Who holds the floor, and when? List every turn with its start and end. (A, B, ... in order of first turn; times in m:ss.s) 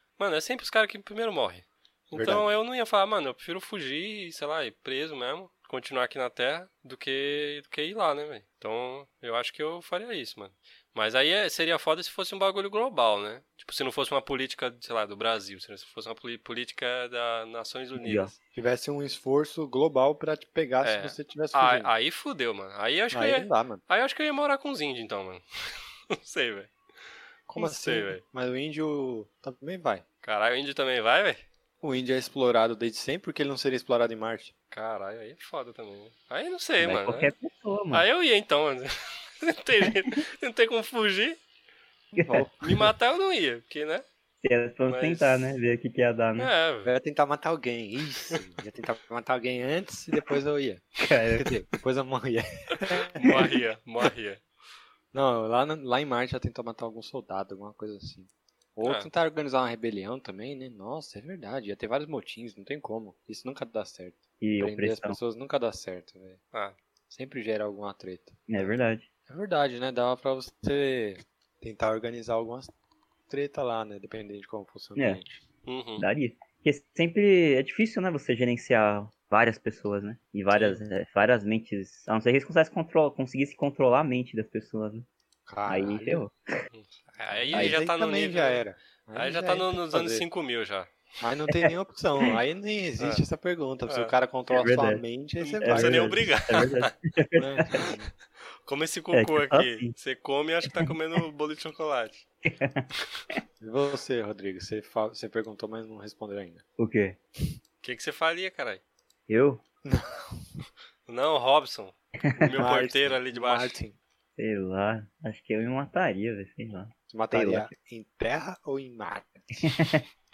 0:00.2-0:18.3 A
0:02.1-0:02.4 B
0:18.0-0:18.3 C
0:18.5-0:21.9 B
0:20.8-0:25.4 A
0:23.1-0:23.8 B
0:26.1-0:26.7 A
0:27.5-0:30.0 B
0:27.6-0:28.2 A
0:30.2-0:31.4 A
0:31.8-0:34.5 B
0:34.7-0:37.3 A
0:36.8-0:38.0 C
0:37.9-0:41.4 A
0:42.1-0:42.5 C
0:42.6-0:44.0 A
0:44.4-0:46.5 C
0:44.9-0:45.4 A
0:46.4-0:46.9 A
0:46.8-0:53.5 B
0:51.0-0:51.5 C
0:53.2-0:54.4 A
0:55.1-1:06.4 B
0:58.8-0:59.1 A
1:04.4-1:05.2 C
1:07.1-1:08.7 B
1:08.5-1:09.0 C
1:09.3-1:12.7 B
1:13.3-1:15.4 B
1:15.0-1:15.2 C
1:15.6-1:16.0 A
1:16.0-1:25.0 C
1:25.4-1:26.2 B
1:25.7-1:26.3 C
1:26.7-1:30.9 A
1:27.3-1:30.2 B
1:31.2-1:36.3 B
1:33.9-1:34.1 A
1:34.5-1:35.0 C
1:35.4-1:36.9 A
1:35.6-1:37.9 C
1:37.4-1:38.1 B
1:38.6-1:42.2 A
1:39.1-1:39.9 C
1:42.4-1:43.4 C
1:43.6-1:46.6 B
1:46.8-1:47.2 C
1:47.8-1:48.8 A
1:49.3-1:49.6 C
1:49.8-1:50.4 B
1:51.1-1:53.8 A
1:52.5-1:54.0 B
1:54.4-1:57.7 C
1:57.1-1:59.5 B
1:59.6-2:00.0 C